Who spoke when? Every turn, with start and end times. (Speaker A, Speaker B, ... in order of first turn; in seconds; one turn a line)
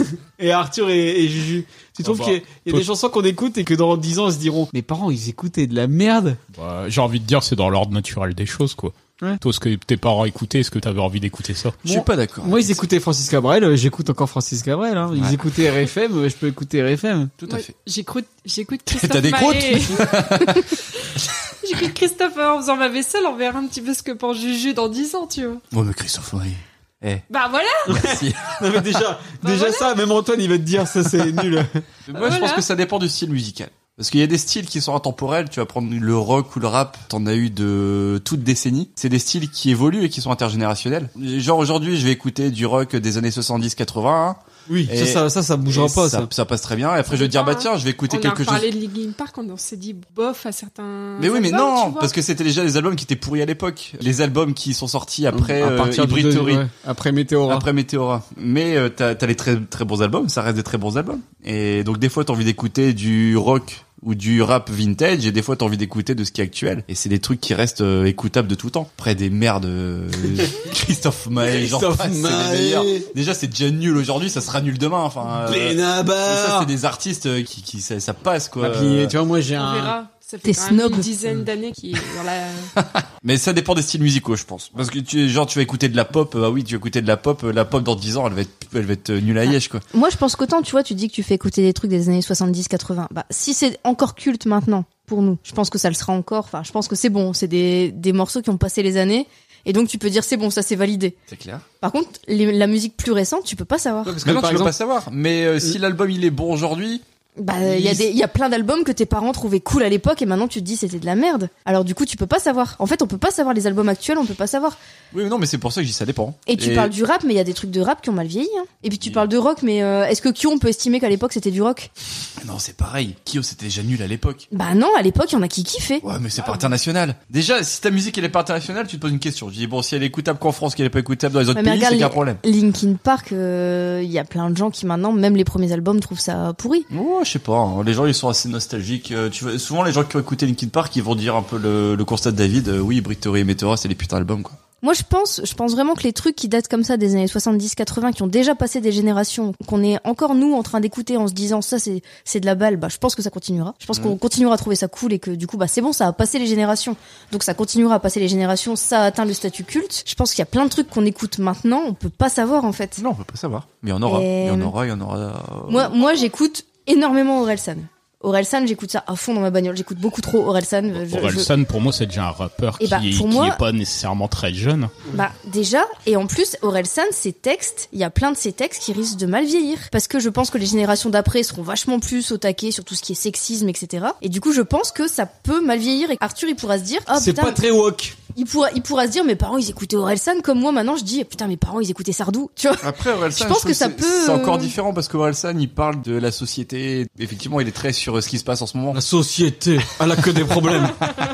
Speaker A: 0.4-6.4
Speaker B: 2.0-2.9
Speaker B: 6.5-11.8
Speaker C: 11.8-12.8
Speaker A: 11.9-17.3
Speaker C: 17.4-17.7
Speaker D: 17.5-20.2
Speaker C: 18.9-20.8
Speaker D: 21.6-25.6
Speaker C: 25.7-27.2
Speaker D: 27.3-27.9
Speaker C: 27.9-28.6
Speaker A: 27.9-31.8
Speaker D: 29.4-29.9
Speaker C: 32.1-48.7
Speaker D: 32.1-32.7
Speaker A: 44.7-46.3
Speaker D: 47.1-52.1
Speaker C: 51.2-56.6
Speaker A: 55.3-57.7
Speaker C: 57.5-79.2
Speaker A: 71.5-73.0
Speaker A: 75.4-76.7
Speaker A: 78.6-80.0
Speaker D: 79.6-82.7
Speaker E: 80.5-81.1
Speaker C: 82.8-89.8
Speaker E: 89.9-101.2
Speaker C: 101.3-101.7
Speaker E: 101.8-104.2
Speaker A: 104.0-104.8
Speaker C: 104.2-107.0
Speaker E: 107.4-114.8
Speaker A: 107.7-108.0
Speaker C: 115.1-116.9
Speaker E: 116.5-121.9
Speaker C: 122.4-124.5
Speaker E: 124.5-126.0
Speaker C: 126.0-132.4
Speaker E: 131.6-136.9
Speaker C: 136.9-144.6
Speaker E: 144.8-163.0
Speaker C: 153.9-154.2
Speaker C: 163.0-165.9
Speaker E: 164.1-164.7
Speaker E: 165.7-171.5
Speaker B: 171.0-174.9
Speaker E: 172.8-173.6
Speaker E: 175.1-187.6
Speaker A: 187.1-188.2
Speaker E: 188.3-194.7
Speaker C: 192.8-199.0
Speaker A: 198.9-201.0